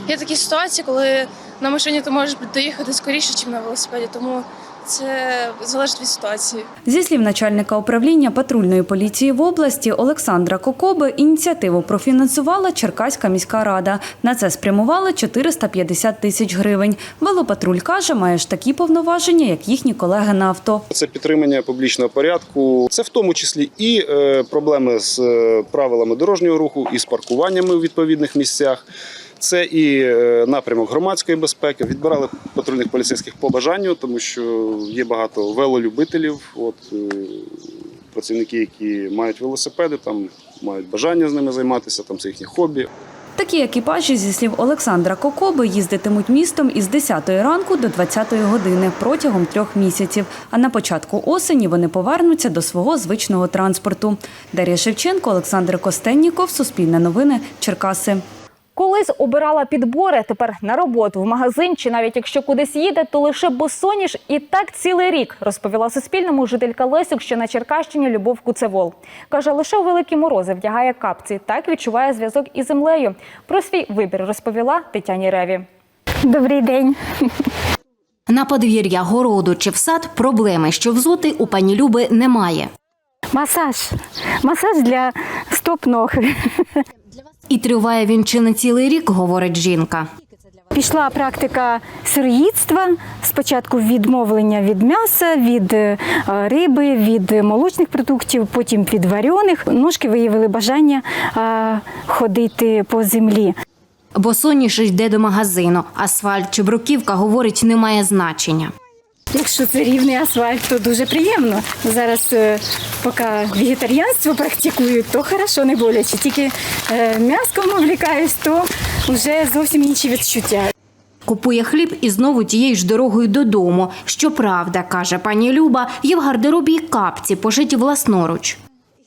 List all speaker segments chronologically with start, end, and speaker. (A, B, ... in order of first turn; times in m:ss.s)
0:00.1-0:06.6 A
0:06.8-0:20.8 B
0:20.9-0:28.8 C
0:29.4-0:37.5 C
0:38.1-0:42.9 C
0:43.4-0:58.2 B
0:58.8-1:15.6 D
1:16.3-1:17.0 E
1:18.3-1:22.7 F
1:23.3-1:26.3 E
1:27.5-1:30.1 F
1:30.7-1:43.5 E
1:44.1-1:48.7 F
1:49.3-2:00.7 E
2:01.2-2:08.6 F